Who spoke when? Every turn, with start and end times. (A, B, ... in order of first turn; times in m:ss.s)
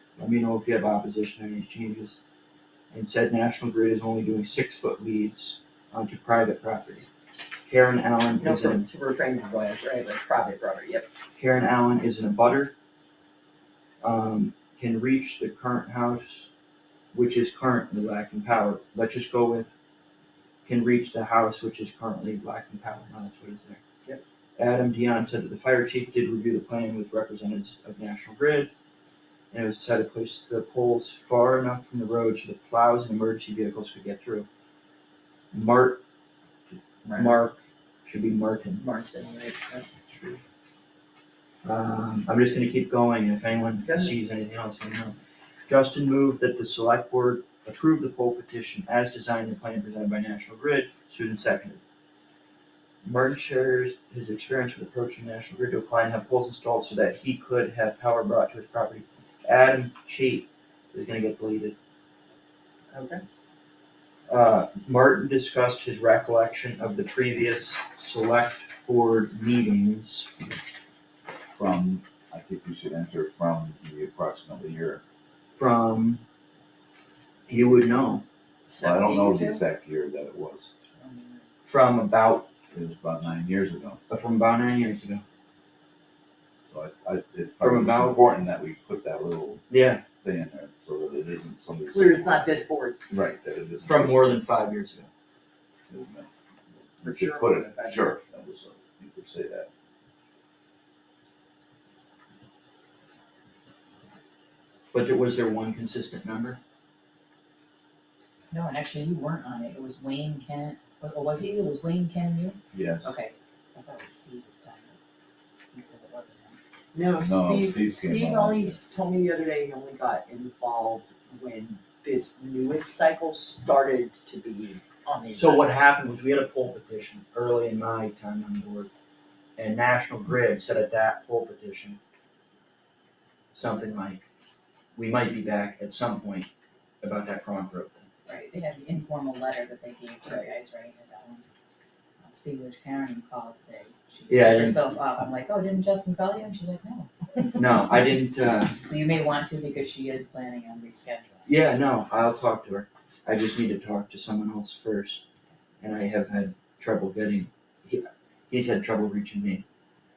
0:00.2-0:02.2 A
0:02.9-0:07.1 A
0:07.7-0:08.9 A
0:08.4-0:11.1 B
0:11.4-0:12.7 A
0:14.0-0:16.5 A
0:17.1-0:19.8 A
0:20.6-0:23.8 A
0:24.6-0:28.7 A
0:29.5-0:34.5 A
0:35.5-0:36.0 A
0:37.0-0:37.4 B
0:37.1-0:38.8 A
0:38.8-0:40.4 B
0:41.6-0:45.2 A
0:43.8-0:44.1 B
0:45.7-0:51.8 A
0:53.0-1:01.8 A
1:02.9-1:03.2 B
1:04.3-1:10.3 A
1:11.5-1:15.0 C
1:15.5-1:16.2 A
1:17.5-1:18.2 A
1:18.7-1:19.6 B
1:18.8-1:20.7 C
1:21.0-1:21.5 D
1:21.6-1:22.5 A
1:22.7-1:24.0 C
1:24.1-1:25.2 A
1:26.7-1:32.5 C
1:27.6-1:28.2 A
1:29.7-1:30.0 A
1:31.9-1:33.0 B
1:33.1-1:34.4 C
1:33.8-1:35.1 A
1:35.9-1:36.3 C
1:36.9-1:39.7 C
1:37.0-1:38.1 B
1:44.9-1:46.6 A
1:48.5-1:55.0 D
1:52.7-1:53.2 C
1:55.7-1:56.6 D
1:56.9-2:05.6 B
1:57.1-1:58.8 C
2:05.4-2:08.9 A
2:09.6-2:12.0 A
2:13.5-2:14.3 A
2:15.0-2:16.5 A
2:17.0-2:18.1 A
2:18.3-2:21.4 D
2:22.2-2:27.8 D
2:24.3-2:24.8 A
2:27.6-2:28.8 A
2:28.8-2:31.5 D
2:31.5-2:35.2 A
2:35.8-2:39.6 A